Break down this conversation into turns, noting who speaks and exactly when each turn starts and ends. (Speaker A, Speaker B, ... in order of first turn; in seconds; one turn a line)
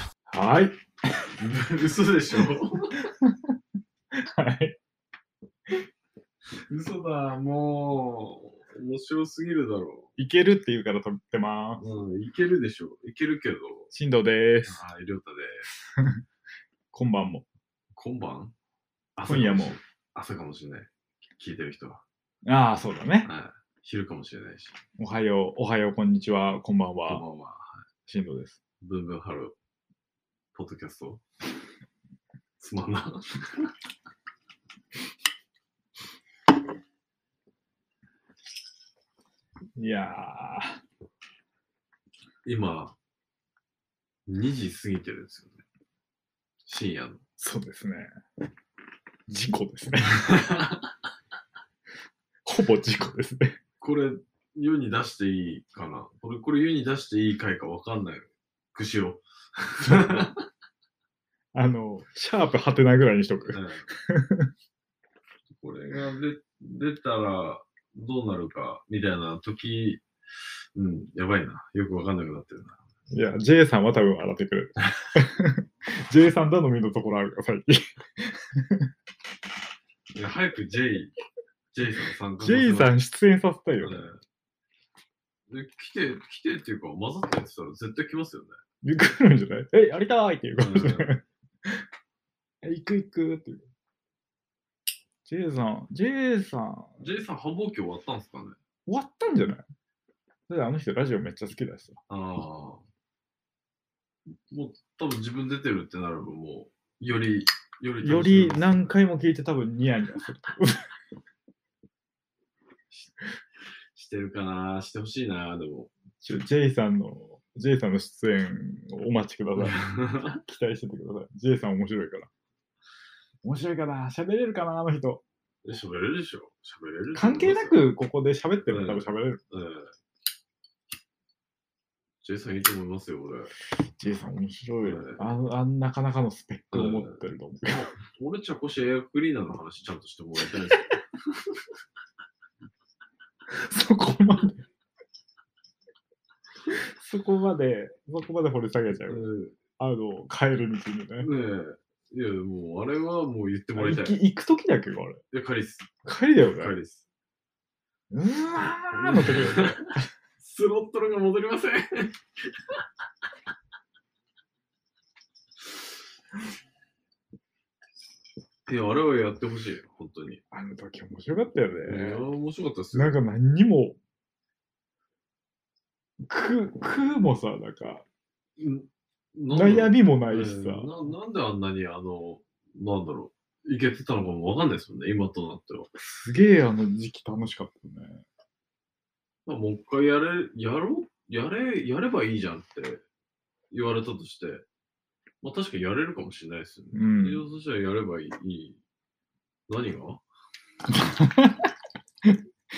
Speaker A: 0.3-0.8
Speaker B: 1.4-3.0
Speaker A: 3.0-3.5
Speaker A: 4.1-4.8
Speaker B: 6.7-10.1
Speaker A: 10.2-11.8
Speaker B: 11.8-13.9
Speaker A: 13.9-14.8
Speaker B: 14.7-15.7
Speaker A: 16.0-16.2
Speaker A: 16.9-17.4
Speaker B: 18.0-18.5
Speaker B: 19.2-22.0
Speaker A: 19.2-19.8
Speaker A: 22.4-23.3
Speaker B: 23.2-24.8
Speaker A: 25.0-27.2
Speaker B: 27.1-27.9
Speaker A: 28.1-28.6
Speaker B: 28.8-29.5
Speaker B: 30.6-31.2
Speaker B: 32.6-33.7
Speaker A: 39.8-40.8
Speaker B: 42.5-43.0
Speaker B: 44.3-45.6
Speaker B: 46.7-47.2
Speaker A: 47.4-48.1
Speaker A: 49.3-50.4
Speaker B: 50.2-50.9
Speaker A: 52.5-53.6
Speaker B: 53.8-60.5
Speaker A: 59.9-60.3
Speaker A: 61.5-64.5
Speaker B: 63.5-63.9
Speaker B: 65.5-70.0
Speaker B: 70.8-72.8
Speaker A: 73.1-78.9
Speaker B: 80.2-81.2
Speaker B: 81.7-82.9
Speaker A: 82.4-84.1
Speaker B: 83.8-84.2
Speaker B: 85.5-88.6
Speaker A: 88.8-91.8
Speaker B: 90.6-91.2
Speaker A: 92.6-93.7
Speaker A: 95.2-97.0
Speaker B: 97.0-98.6
Speaker A: 98.9-99.6
Speaker A: 100.5-102.0
Speaker B: 102.1-102.8
Speaker B: 104.3-108.9
Speaker A: 108.0-110.9
Speaker B: 112.9-113.2
Speaker B: 114.0-115.9
Speaker A: 116.2-122.3
Speaker B: 119.6-120.4
Speaker A: 123.4-125.2
Speaker B: 125.7-127.8
Speaker A: 127.2-129.4
Speaker B: 128.7-129.9
Speaker B: 132.2-133.6
Speaker A: 134.0-137.9
Speaker B: 134.8-135.2
Speaker B: 136.7-141.0
Speaker A: 143.5-144.7
Speaker A: 146.7-149.2
Speaker B: 149.1-149.6
Speaker A: 149.8-151.3
Speaker B: 151.2-154.2
Speaker A: 153.8-155.2
Speaker B: 155.3-157.1
Speaker A: 156.1-156.8
Speaker A: 158.1-160.1
Speaker B: 158.9-162.2
Speaker B: 168.7-170.4
Speaker A: 170.5-172.2
Speaker B: 171.9-173.2
Speaker A: 172.9-174.0
Speaker A: 176.2-178.1
Speaker B: 178.6-185.9
Speaker A: 179.5-180.9
Speaker A: 186.0-188.2
Speaker B: 189.5-193.0
Speaker B: 193.7-194.7
Speaker B: 195.4-198.8
Speaker A: 196.9-197.4
Speaker B: 199.7-200.2
Speaker A: 200.9-201.7